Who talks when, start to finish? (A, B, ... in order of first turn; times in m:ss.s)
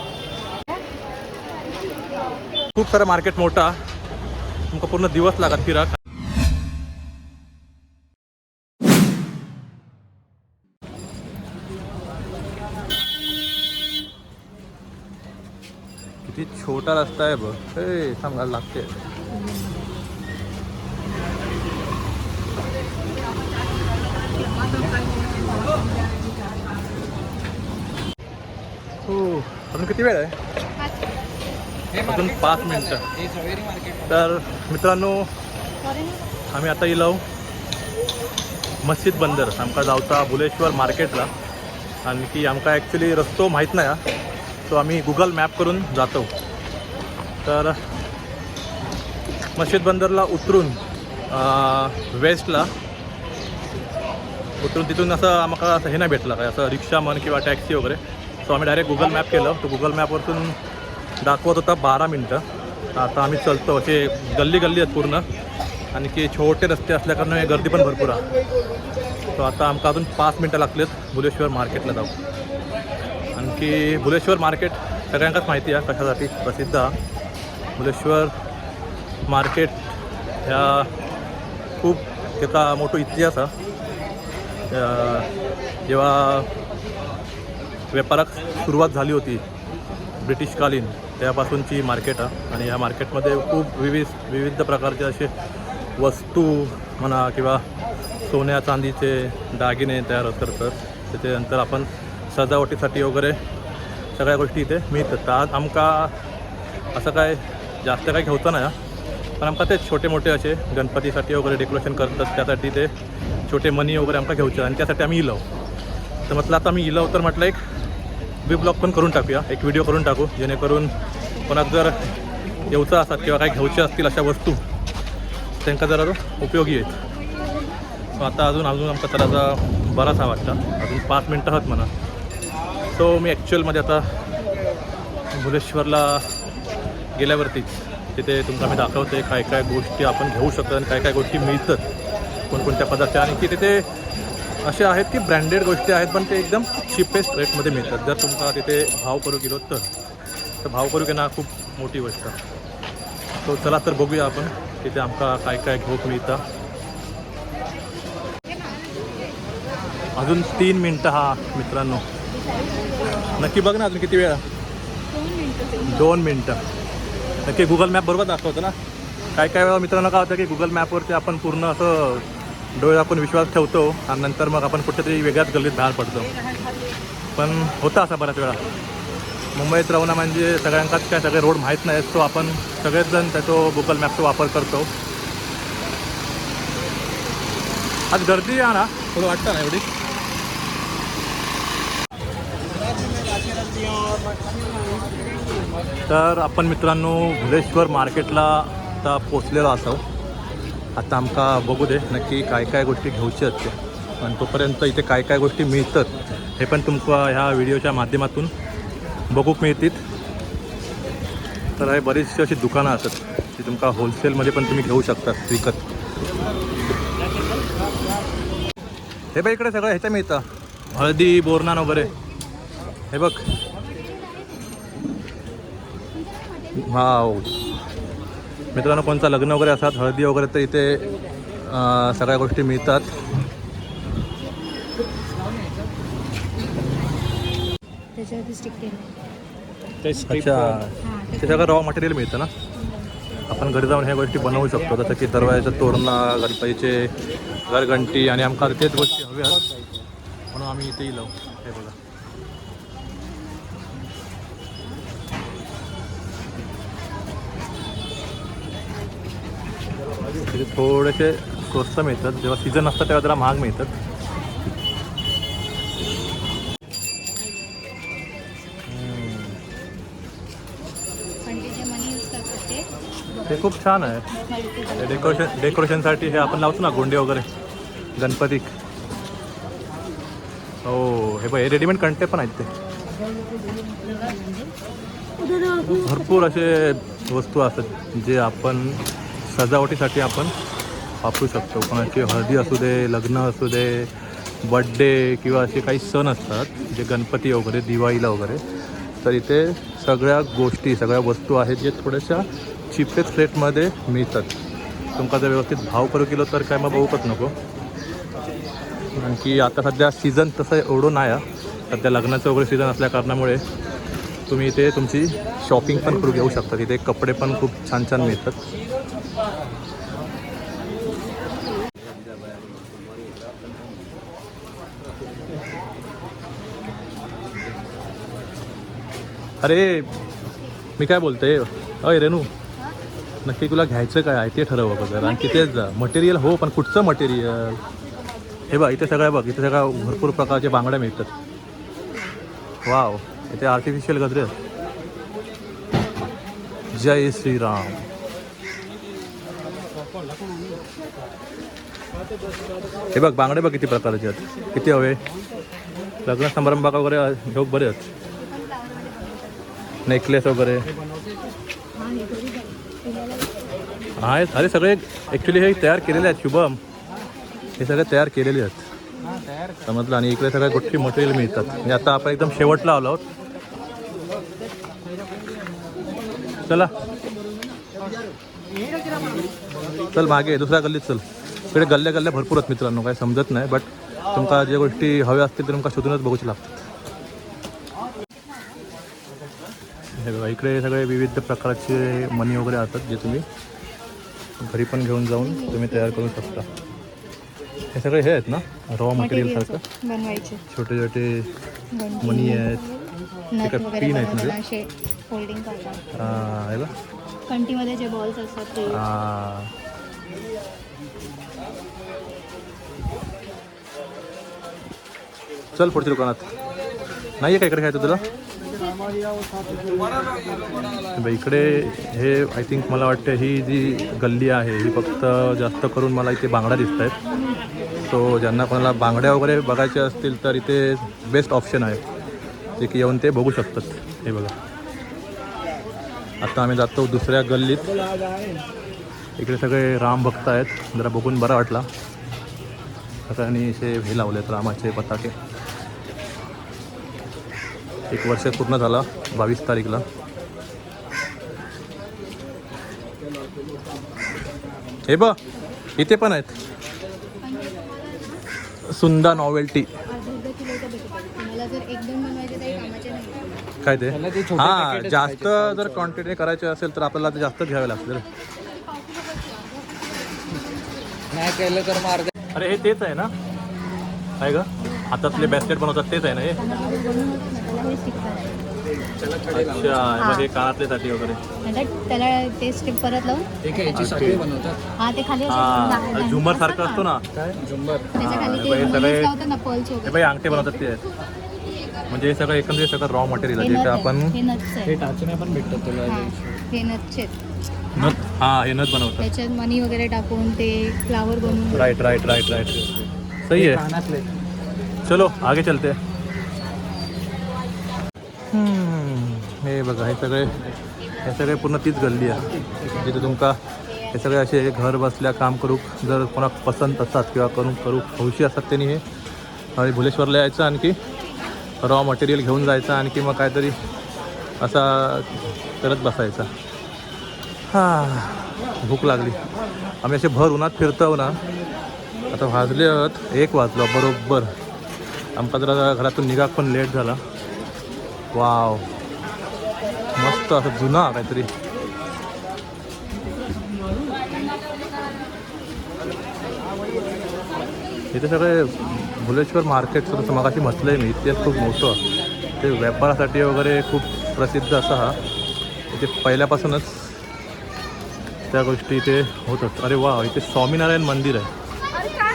0:02.7-0:03.8 A
0:04.7-0:05.9 A
0:16.2-0:19.0 A
0:29.0-0:30.4 A
0:32.0-0:33.1 A
0:33.1-0:34.1 B
0:34.1-0:35.3 A
0:35.8-0:36.2 C
0:36.5-0:37.2 A
0:38.8-0:41.3 A
0:42.0-0:44.0 A
0:44.7-0:46.3 A
0:47.4-0:47.8 A
0:49.6-0:52.7 A
0:54.6-1:00.6 A
1:01.2-1:02.4 A
1:03.0-1:05.3 A
1:05.9-1:08.3 A
1:09.3-1:12.1 A
1:13.3-1:17.0 A
1:17.8-1:18.3 A
1:19.3-1:19.9 A
1:20.4-1:20.9 A
1:21.8-1:23.5 A
1:24.7-1:25.3 A
1:25.9-1:26.5 A
1:27.9-1:29.4 A
1:30.2-1:35.3 A
1:36.0-1:37.6 A
1:38.2-1:43.4 A
1:44.2-1:46.2 A
1:46.9-1:48.8 A
1:49.4-1:52.9 A
1:53.5-1:55.4 A
1:56.3-1:57.6 A
1:58.4-2:00.9 A
2:01.5-2:02.0 A
2:02.7-2:04.6 A
2:05.6-2:07.0 A
2:08.1-2:11.9 A
2:12.9-2:14.1 A
2:15.3-2:16.3 A
2:17.1-2:21.8 A
2:22.5-2:23.8 A
2:24.6-2:29.9 A
2:30.6-2:32.4 A
2:33.4-2:36.4 A
2:40.1-2:42.0 A
2:42.4-2:43.4 C
2:43.3-2:44.4 A
2:45.1-2:46.1 C
2:45.8-2:46.6 A
2:47.4-2:48.7 A
2:49.3-2:56.3 A
2:57.4-2:58.6 A
2:59.5-3:04.9 A
3:08.1-3:09.9 A
3:16.1-3:20.0 A
3:21.0-3:28.5 A
3:29.3-3:30.0 A
3:31.8-3:35.8 A
3:39.3-3:42.1 A
3:43.1-3:43.4 A
3:46.7-3:47.6 A
3:48.7-3:51.0 A
3:51.6-3:53.1 A
3:58.2-3:59.1 C
4:00.0-4:00.8 B
4:00.2-4:02.5 A
4:01.0-4:01.8 C
4:02.9-4:03.4 C
4:03.5-4:07.1 A
4:07.7-4:09.6 A
4:10.5-4:12.0 A
4:20.4-4:23.9 A
4:28.9-4:29.6 A
4:31.4-4:32.9 C
4:33.5-4:34.3 A
4:34.3-4:36.0 C
4:35.0-4:37.5 A
4:38.2-4:38.7 A
4:40.8-4:42.7 A
4:45.6-4:45.8 C
4:45.9-4:50.5 A
4:51.2-4:58.6 A
4:59.2-5:04.5 A
5:05.2-5:07.5 A
5:09.2-5:13.6 A
5:14.5-5:18.6 A
5:29.6-5:30.1 A
5:31.0-5:32.5 A
5:33.4-5:37.8 A
5:38.7-5:41.3 A
5:42.8-5:44.6 A
5:46.9-5:48.1 A
5:53.1-5:55.2 A
5:56.2-5:58.1 A
5:58.5-6:00.0 C
6:00.0-6:00.9 A
6:01.9-6:03.6 C
6:04.2-6:06.8 A
6:07.8-6:08.9 A
6:09.8-6:13.2 A
6:16.6-6:16.9 A
6:20.1-6:26.6 A
6:30.2-6:33.4 A
6:34.6-6:36.7 A
6:35.4-6:36.6 C
6:37.9-6:39.8 A
6:39.2-6:40.6 C
6:40.7-6:41.5 A
6:41.9-6:46.2 C
6:42.2-6:42.8 A
6:43.6-6:44.6 A
6:46.1-6:46.9 A
6:47.5-6:49.0 C
6:48.9-6:49.7 A
6:55.7-6:56.4 A
6:57.4-6:58.2 A
7:01.1-7:07.2 A
7:08.0-7:12.0 A
7:12.8-7:14.5 A
7:16.4-7:17.9 A
7:19.4-7:21.9 A
7:23.3-7:25.4 A
7:28.1-7:30.0 A
7:35.1-7:35.4 A
7:36.0-7:36.6 A
7:37.4-7:38.4 C
7:38.9-7:39.9 A
7:40.1-7:43.7 C
7:43.8-7:48.3 A
7:44.1-7:46.2 B
7:48.9-7:49.7 C
7:51.3-7:52.3 B
7:52.5-7:53.3 A
7:54.4-7:56.6 A
7:54.8-7:55.8 C
7:56.6-7:58.7 C
7:59.0-8:00.1 B
7:59.5-8:01.4 A
8:00.1-8:00.5 C
8:01.6-8:03.6 C
8:03.6-8:04.8 B
8:03.9-8:04.5 A
8:05.0-8:07.1 C
8:05.5-8:07.3 A
8:07.4-8:08.1 B
8:08.2-8:10.7 C
8:08.2-8:09.3 A
8:10.0-8:11.0 A
8:12.1-8:14.4 A
8:13.6-8:15.0 C
8:14.9-8:16.6 B
8:16.0-8:17.3 C
8:18.0-8:19.3 A
8:19.2-8:22.0 C
8:21.7-8:22.8 A
8:22.2-8:23.0 B
8:23.4-8:23.8 A
8:23.6-8:24.3 B
8:25.0-8:26.0 A
8:28.5-8:30.6 A
8:31.2-8:39.0 A
8:39.8-8:41.0 A
8:41.8-8:43.8 A
8:44.6-8:46.5 A
8:47.7-8:49.4 A
8:50.0-8:51.4 A
8:52.3-8:54.5 A
8:55.4-8:57.2 A
8:58.3-8:58.9 A
9:00.2-9:01.5 A
9:08.1-9:12.0 A
9:12.6-9:15.2 A
9:15.9-9:17.2 A
9:18.5-9:21.5 A